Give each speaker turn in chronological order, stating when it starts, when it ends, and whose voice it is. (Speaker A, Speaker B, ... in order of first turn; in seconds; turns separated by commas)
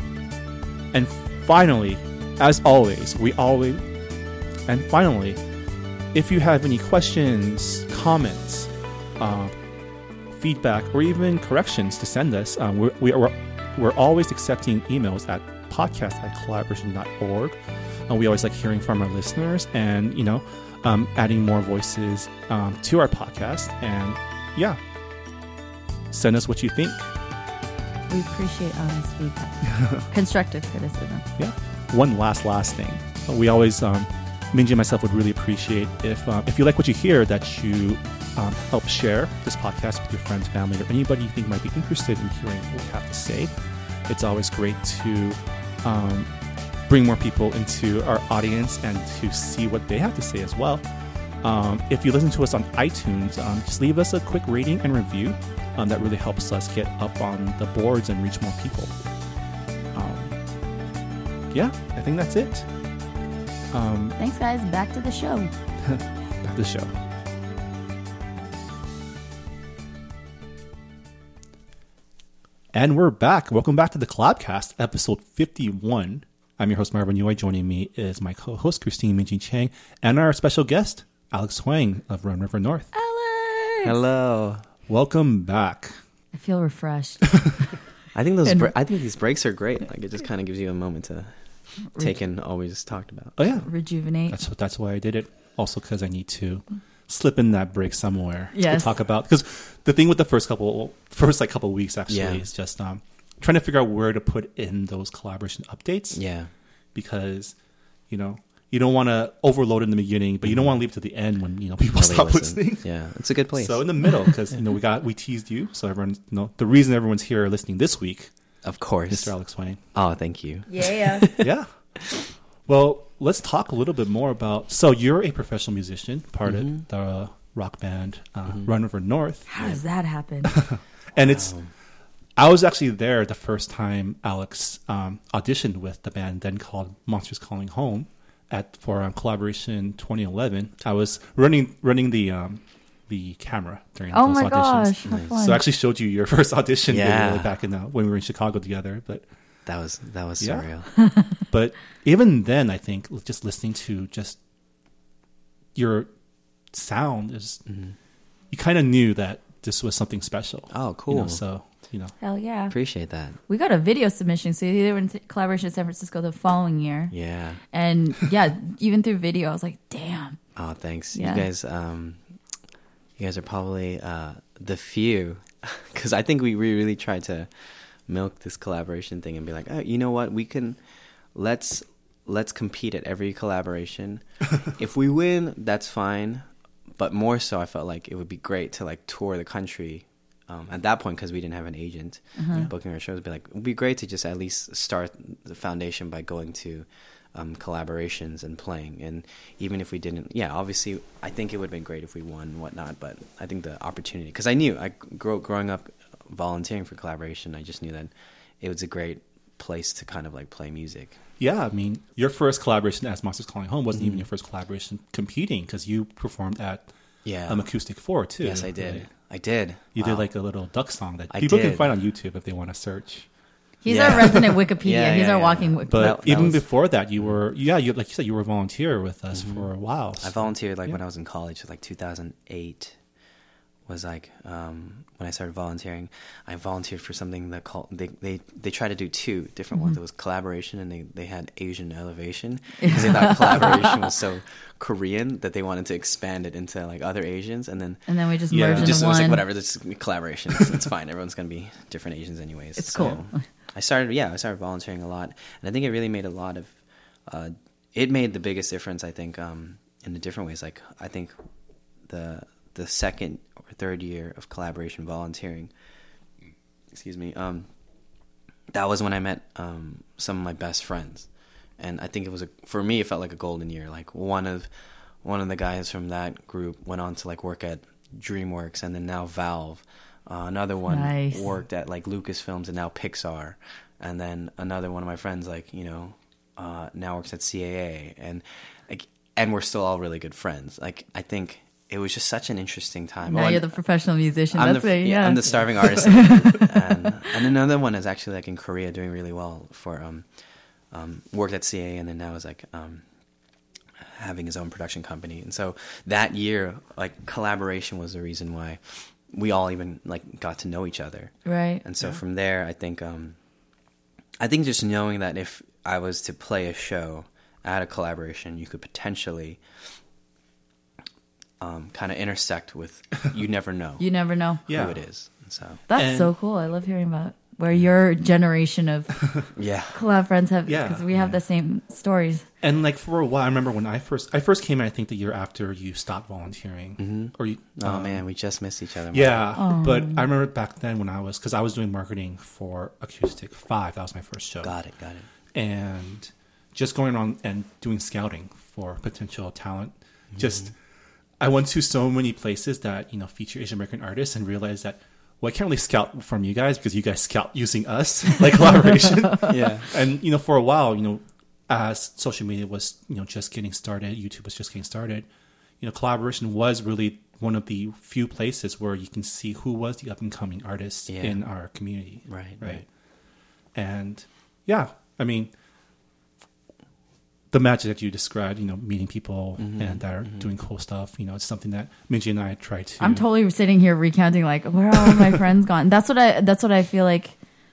Speaker A: 0.9-3.9, Speaker A: 4.7-5.4, Speaker A: 6.1-9.5, Speaker A: 10.3-24.8, Speaker A: 26.1-27.1, Speaker B: 28.1-31.2, Speaker A: 29.6-30.0, Speaker A: 31.4-43.5, Speaker A: 44.1-46.3, Speaker A: 46.9-50.8, Speaker A: 51.4-58.9, Speaker A: 59.9-60.4, Speaker A: 61.5-62.7, Speaker A: 63.7-64.2, Speaker B: 64.2-65.5, Speaker A: 65.8-66.9, Speaker A: 72.7-82.9, Speaker B: 82.9-84.0, Speaker C: 83.8-84.7, Speaker A: 84.9-86.0, Speaker B: 86.3-87.3, Speaker C: 88.1-91.3, Speaker B: 88.4-88.7, Speaker C: 92.0-93.5, Speaker A: 93.4-93.7, Speaker B: 93.6-94.4, Speaker A: 94.3-106.2, Speaker B: 98.5-98.9, Speaker C: 102.1-102.4, Speaker C: 106.1-106.5, Speaker A: 106.9-107.5, Speaker A: 108.1-112.9, Speaker C: 110.4-110.7, Speaker C: 111.9-114.3, Speaker A: 113.5-118.3, Speaker C: 118.6-119.3, Speaker A: 119.1-119.8, Speaker C: 119.9-121.5, Speaker B: 120.7-121.3, Speaker A: 121.4-121.7, Speaker A: 122.7-129.4, Speaker C: 126.5-126.8, Speaker B: 129.5-130.5, Speaker A: 130.4-131.5, Speaker C: 131.2-131.7, Speaker A: 132.4-149.2, Speaker B: 144.1-145.6, Speaker C: 145.1-145.4, Speaker C: 146.9-147.5, Speaker C: 149.7-150.9, Speaker A: 150.4-150.7, Speaker B: 151.0-151.3, Speaker A: 151.5-154.4, Speaker A: 155.7-156.1, Speaker A: 156.7-157.6, Speaker C: 157.7-157.9, Speaker A: 158.5-162.1, Speaker C: 160.7-161.4, Speaker B: 162.2-162.7, Speaker C: 162.7-163.4, Speaker B: 163.5-167.1, Speaker C: 167.1-167.6, Speaker B: 167.7-170.4, Speaker C: 170.6-172.2, Speaker B: 171.1-171.5, Speaker C: 173.2-177.5, Speaker C: 178.1-180.8, Speaker C: 181.3-186.4, Speaker C: 187.0-211.2, Speaker B: 192.4-192.7, Speaker A: 211.4-216.9, Speaker C: 213.9-214.2, Speaker C: 217.2-217.7, Speaker A: 217.5-219.1, Speaker C: 218.4-220.3, Speaker A: 219.9-223.3, Speaker C: 221.3-221.9, Speaker B: 223.8-226.5, Speaker C: 223.9-226.6, Speaker A: 224.1-224.5, Speaker A: 225.9-230.3, Speaker C: 229.3-229.7, Speaker C: 230.2-232.9, Speaker C: 233.9-248.0, Speaker B: 242.8-243.9, Speaker B: 248.1-249.4, Speaker A: 248.5-249.1, Speaker C: 248.7-256.7, Speaker B: 252.8-253.4, Speaker C: 257.3-261.3, Speaker C: 262.1-265.7, Speaker C: 266.9-267.7, Speaker C: 268.7-271.3, Speaker C: 271.8-274.7, Speaker C: 275.2-293.7, Speaker B: 280.9-281.4, Speaker B: 293.2-297.1, Speaker C: 294.5-300.2, Speaker C: 300.9-303.0, Speaker C: 304.1-313.4, Speaker B: 311.4-311.8, Speaker C: 314.4-319.6, Speaker C: 321.6-324.1, Speaker B: 324.0-324.6, Speaker C: 324.7-325.8, Speaker A: 324.7-325.0, Speaker B: 325.9-329.1, Speaker A: 325.9-326.3, Speaker C: 329.5-330.0, Speaker B: 329.9-332.4, Speaker A: 330.7-331.1, Speaker A: 332.6-338.2, Speaker C: 337.0-339.5, Speaker A: 339.1-344.7, Speaker B: 339.6-340.3, Speaker C: 344.6-345.3, Speaker A: 345.5-350.7, Speaker C: 350.3-350.7, Speaker A: 351.4-365.3, Speaker C: 359.4-359.9, Speaker A: 365.8-372.8, Speaker C: 371.1-371.4, Speaker C: 372.3-372.8, Speaker A: 373.7-375.5, Speaker A: 377.5-383.2, Speaker C: 379.6-380.5, Speaker B: 383.0-387.3